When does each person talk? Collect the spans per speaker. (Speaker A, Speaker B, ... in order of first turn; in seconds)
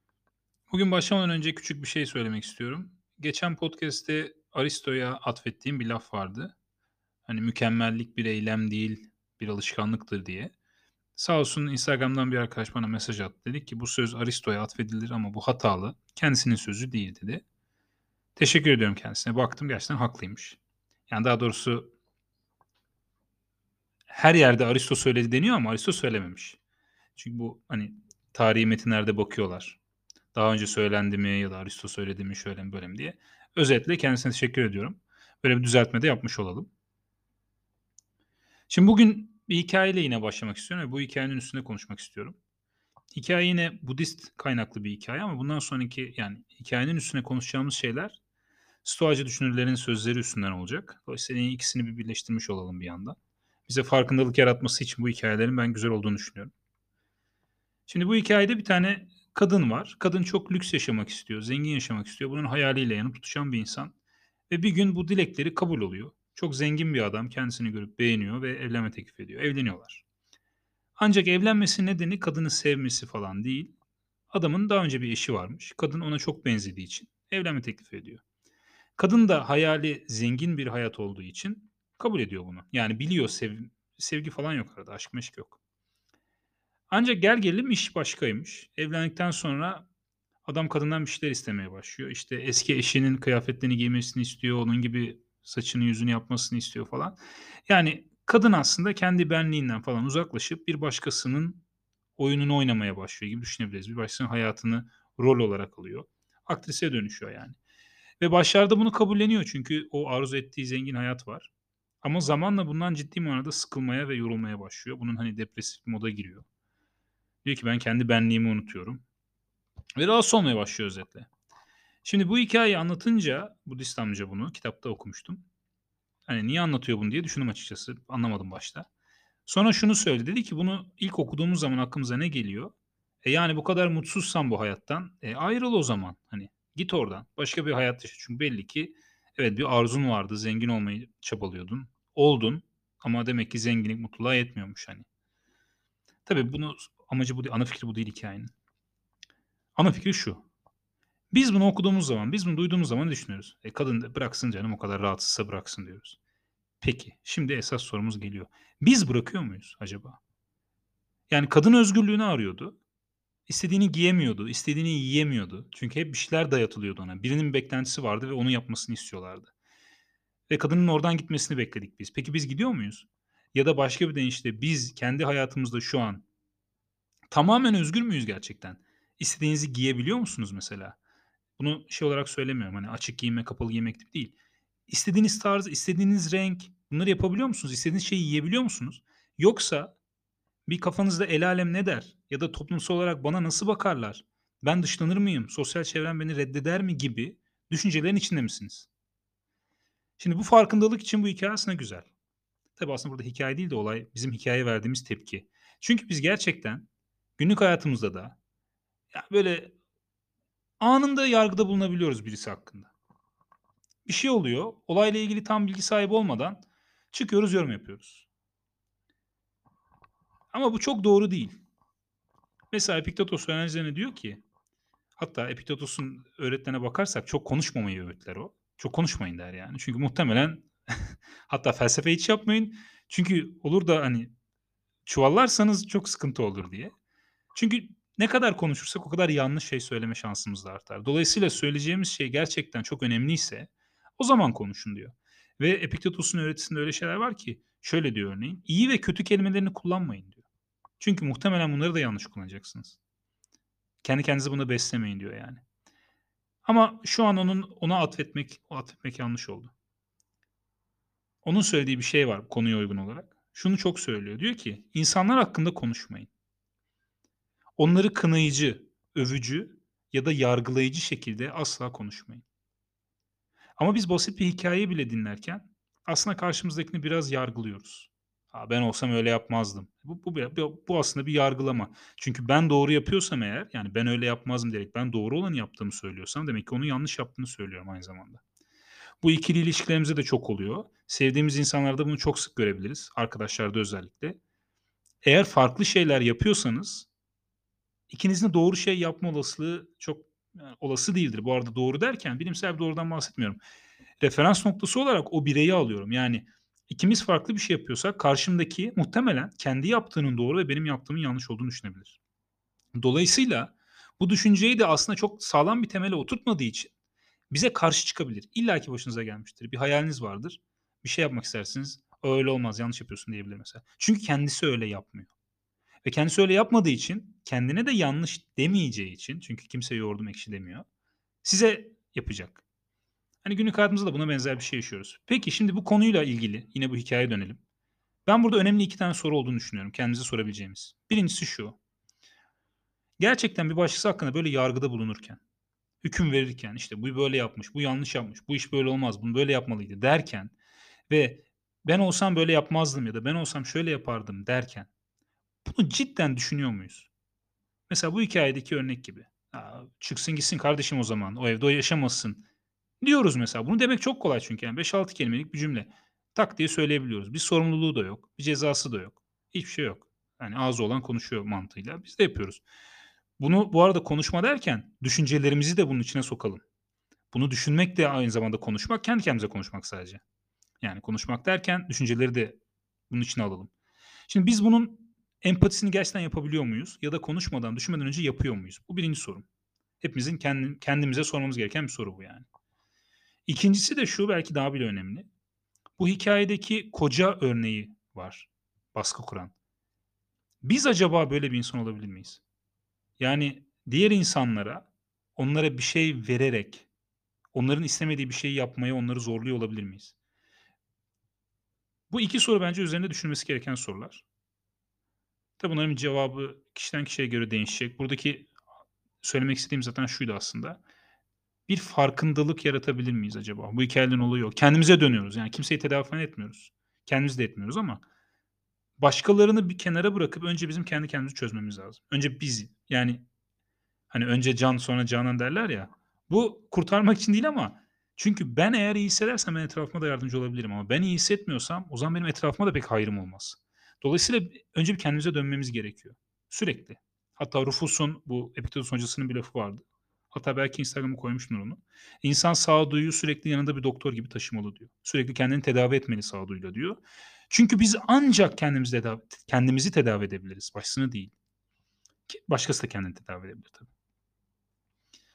Speaker A: 0.7-6.5, 7.2-10.5, 11.2-17.4, 18.4-21.9, 24.1-26.6, 27.1-29.8, 30.3-36.7, 38.7-42.4, 43.1-48.2, 48.8-56.5, 57.9-63.9, 64.5-70.0, 71.0-73.7, 74.3-78.2, 79.0-85.6, 86.9-89.9, 90.5-101.6, 102.2-107.6, 108.2-111.5, 112.0-116.5, 117.4-119.0, 120.0-121.3, 122.0-125.4, 126.3-128.9, 129.4-145.1, 146.2-148.5, 149.8-150.4, 151.3-156.2, 156.8-160.2, 161.3-162.8, 163.5-169.5, 170.5-176.2, 177.3-181.0, 181.6-184.3, 184.9-189.9, 190.7-198.9, 200.2-202.1, 202.8-206.8, 207.4-208.4, 209.1-209.7, 210.8-212.9, 214.1-218.3, 220.5-221.6, 222.7-224.4, 225.2-234.3, 235.0-236.9, 237.5-250.4, 251.0-253.0, 254.0-255.6, 256.6-259.7, 261.4-266.3, 267.8-272.4, 273.8-288.4, 289.2-294.4, 295.2-297.1, 298.1-303.6, 304.2-312.2, 312.9-316.9, 317.5-325.3, 326.0-330.9, 331.4-332.6, 333.4-337.6, 338.2-341.8, 343.2-345.4, 346.0-350.5, 351.1-354.9, 355.6-357.1, 357.9-362.4, 363.0-372.6, 373.4-376.6, 377.3-380.2, 380.8-382.6, 383.1-383.7, 384.3-389.4, 390.0-392.4, 393.5-395.3, 396.0-399.5, 400.6-402.4, 403.2-406.9, 407.5-410.1, 412.1-414.2, 415.6-418.5, 419.2-420.8, 421.7-428.0, 429.0-433.2, 434.1-461.3, 462.3-463.9